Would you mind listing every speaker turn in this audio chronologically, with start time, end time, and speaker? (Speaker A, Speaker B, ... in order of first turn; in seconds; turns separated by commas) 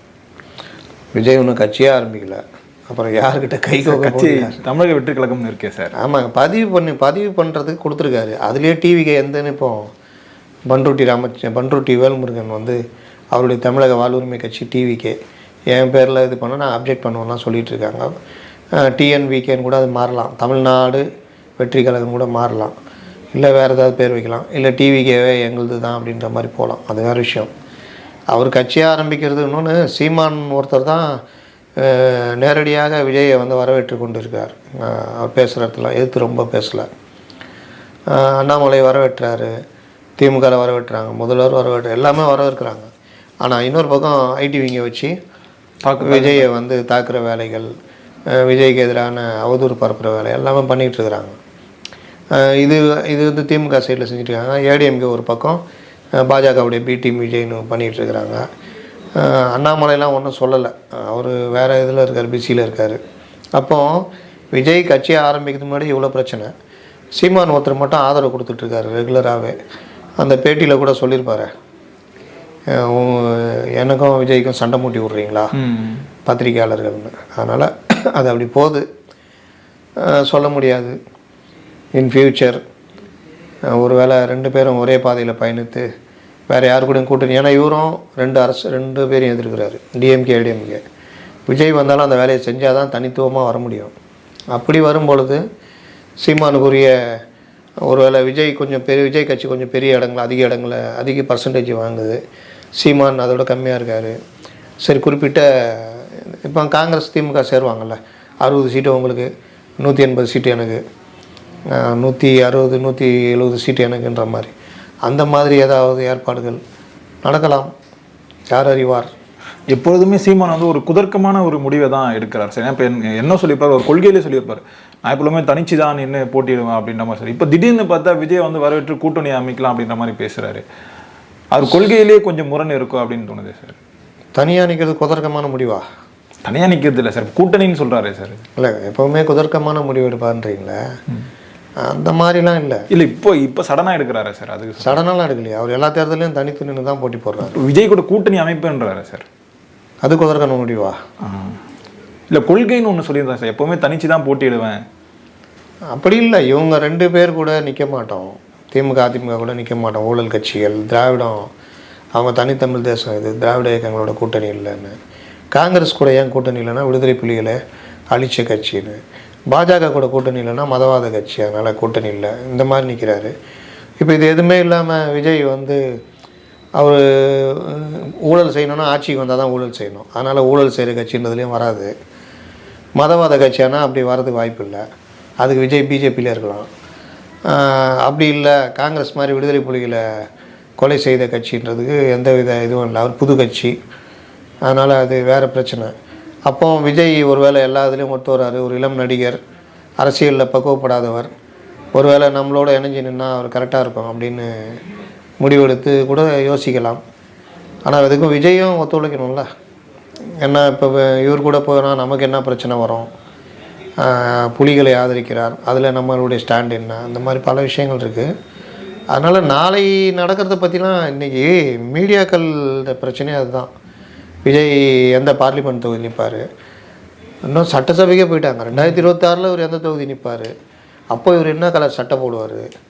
Speaker A: 1.1-4.6, Speaker B: 3.8-5.9, Speaker A: 6.0-9.9, Speaker A: 10.7-12.8, Speaker A: 13.3-15.2, Speaker A: 15.7-18.1, Speaker A: 18.8-21.1, Speaker A: 21.6-22.8, Speaker A: 23.3-27.5, Speaker A: 28.3-31.1, Speaker A: 31.8-36.9, Speaker A: 38.1-39.6, Speaker A: 40.2-42.9, Speaker A: 43.4-45.1, Speaker B: 45.9-46.5, Speaker A: 46.0-47.7, Speaker A: 48.3-51.4, Speaker A: 52.3-55.6, Speaker A: 56.2-58.4, Speaker A: 59.1-63.0, Speaker A: 63.5-66.5, Speaker A: 67.2-69.6, Speaker A: 70.2-71.5, Speaker A: 72.7-75.5, Speaker B: 75.6-76.0, Speaker A: 76.3-78.8, Speaker A: 80.0-81.0, Speaker A: 82.0-82.6, Speaker A: 83.7-85.9, Speaker A: 86.5-90.8, Speaker A: 91.5-93.9, Speaker A: 94.5-95.4, Speaker A: 96.2-97.2, Speaker A: 97.8-102.2, Speaker A: 102.8-104.2, Speaker A: 104.8-110.8, Speaker A: 111.7-114.5, Speaker A: 115.0-116.6, Speaker A: 117.2-117.7, Speaker A: 118.5-119.1, Speaker B: 119.7-130.6, Speaker B: 131.5-133.8, Speaker A: 134.3-135.8, Speaker B: 136.4-138.4, Speaker A: 138.6-140.8, Speaker A: 141.8-142.9, Speaker B: 142.9-145.0, Speaker A: 144.8-147.6, Speaker B: 147.4-149.3, Speaker A: 150.0-151.0, Speaker B: 151.2-151.6, Speaker B: 152.3-154.8, Speaker A: 155.9-161.5, Speaker A: 162.2-165.0, Speaker A: 165.5-167.6, Speaker A: 168.1-169.0, Speaker A: 169.5-173.3, Speaker A: 174.0-175.8, Speaker A: 176.8-181.9, Speaker A: 183.0-184.8, Speaker A: 185.4-186.7, Speaker A: 187.5-190.2, Speaker A: 190.8-193.8, Speaker A: 194.7-195.9, Speaker A: 196.5-199.4, Speaker A: 200.0-201.3, Speaker A: 201.9-204.8, Speaker A: 205.4-207.0, Speaker A: 207.9-209.5, Speaker A: 210.4-213.1, Speaker A: 214.0-218.3, Speaker A: 219.1-223.7, Speaker A: 224.4-226.4, Speaker A: 227.5-230.5, Speaker A: 231.1-232.7